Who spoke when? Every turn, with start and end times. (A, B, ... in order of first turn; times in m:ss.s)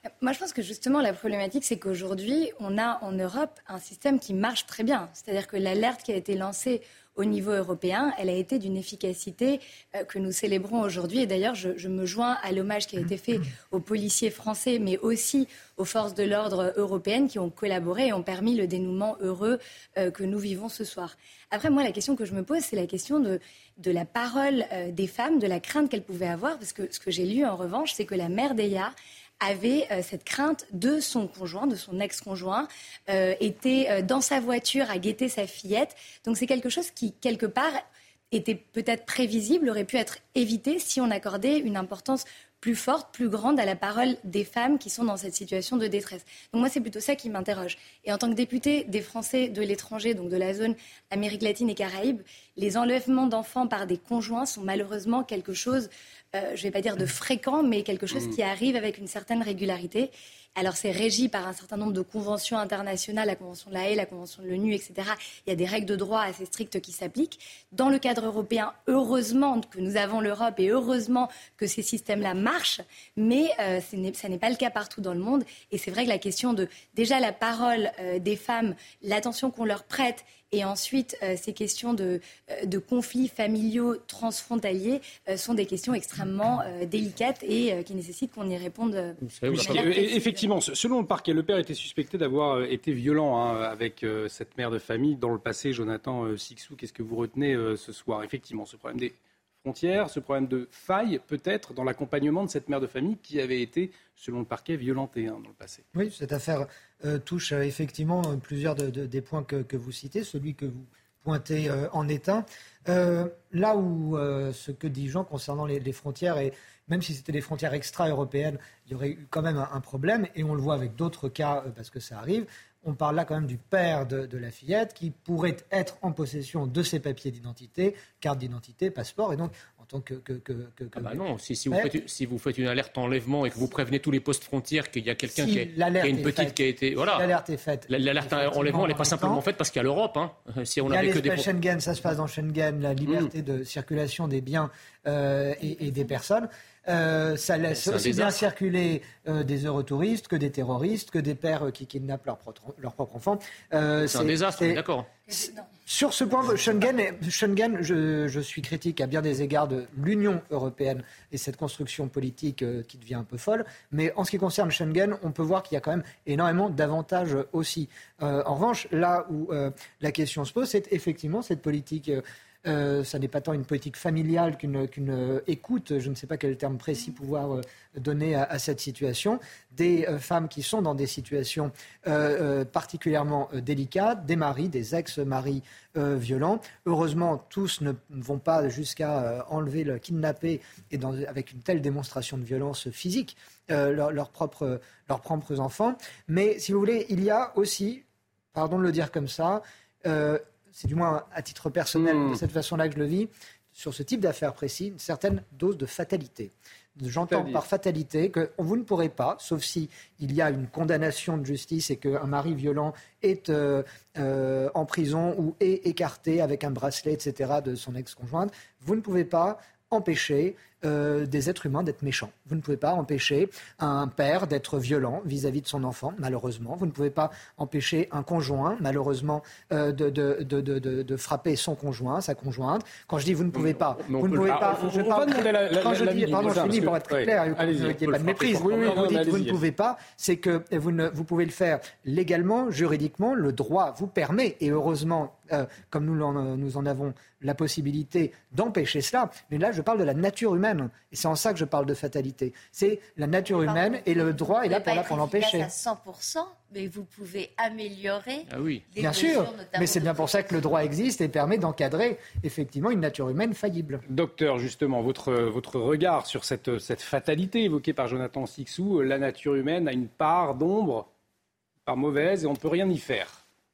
0:00.2-1:30.4 A
1:29.2-1:29.9 B
1:29.5-1:45.8 C
1:45.9-2:11.9 D
2:11.0-2:17.3 B
2:15.3-2:19.4 D
2:17.9-2:21.5 B
2:20.8-3:18.0 D
2:27.7-2:28.5 B
2:34.0-2:35.1 B
3:18.5-4:15.7 D
3:22.0-3:22.4 C
3:27.3-3:27.6 C
3:53.5-3:59.6 C
4:13.6-4:20.6 E
4:18.5-4:18.8 B
4:19.0-4:24.0 D
4:24.1-4:31.1 C
4:31.8-4:33.4 C